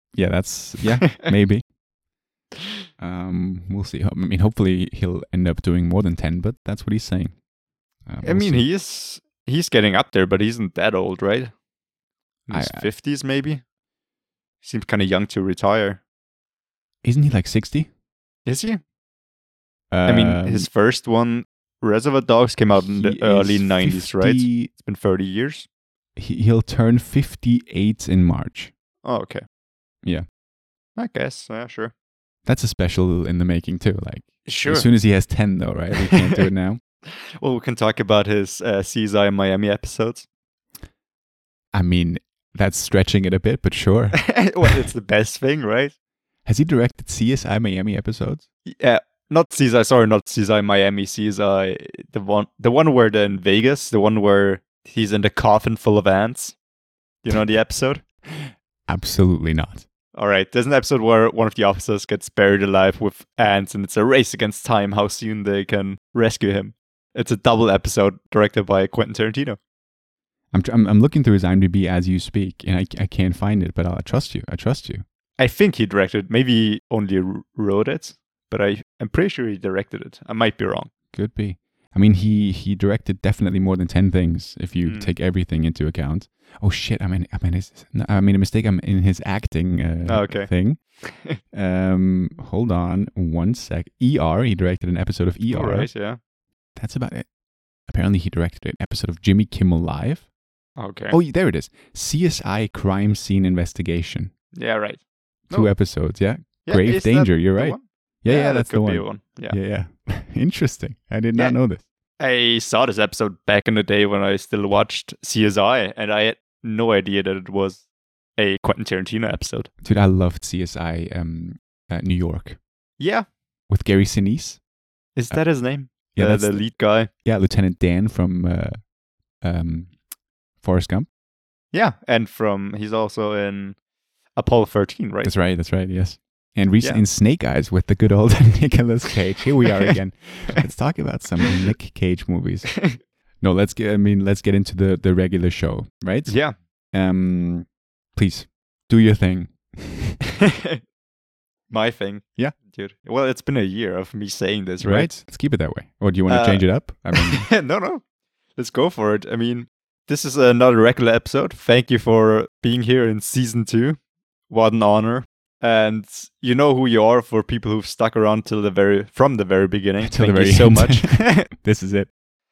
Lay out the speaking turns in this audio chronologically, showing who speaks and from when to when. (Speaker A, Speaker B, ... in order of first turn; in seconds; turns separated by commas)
Speaker A: 0.1-1.6, Speaker A: 3.0-7.4, Speaker A: 8.1-8.6, Speaker B: 8.2-11.5, Speaker B: 12.4-13.6, Speaker A: 12.5-12.9, Speaker B: 14.6-16.0, Speaker A: 17.0-17.9, Speaker B: 18.4-18.8, Speaker A: 19.9-20.7, Speaker B: 20.0-25.7, Speaker A: 22.7-24.7, Speaker A: 26.1-28.7, Speaker B: 29.0-29.4, Speaker B: 30.9-31.9, Speaker A: 32.4-36.8, Speaker B: 34.5-34.9, Speaker B: 36.1-36.4, Speaker B: 37.4-40.2, Speaker A: 41.7-44.8, Speaker B: 44.3-45.9, Speaker A: 46.4-48.4, Speaker B: 48.6-56.6, Speaker B: 57.2-58.0, Speaker A: 58.4-59.9, Speaker B: 60.1-69.6, Speaker A: 70.5-75.0, Speaker B: 75.4-80.9, Speaker A: 81.1-91.0, Speaker B: 84.8-85.1, Speaker B: 90.0-91.4, Speaker A: 91.5-95.9, Speaker B: 95.5-96.2, Speaker A: 96.8-97.3, Speaker A: 97.9-100.3, Speaker B: 100.8-101.2, Speaker A: 101.1-104.3, Speaker B: 104.5-105.8, Speaker A: 105.5-111.8, Speaker B: 106.4-109.6, Speaker B: 112.2-117.8, Speaker B: 118.4-119.7, Speaker A: 119.8-122.6, Speaker B: 123.0-123.2, Speaker A: 123.7-124.6, Speaker B: 125.1-127.1, Speaker A: 125.3-130.0, Speaker A: 130.6-131.1, Speaker B: 131.7-133.8, Speaker B: 134.3-135.3, Speaker A: 135.2-150.2, Speaker B: 146.2-146.5, Speaker B: 151.7-155.1, Speaker A: 154.8-157.5, Speaker B: 156.3-158.0, Speaker B: 158.6-171.5, Speaker A: 170.0-172.1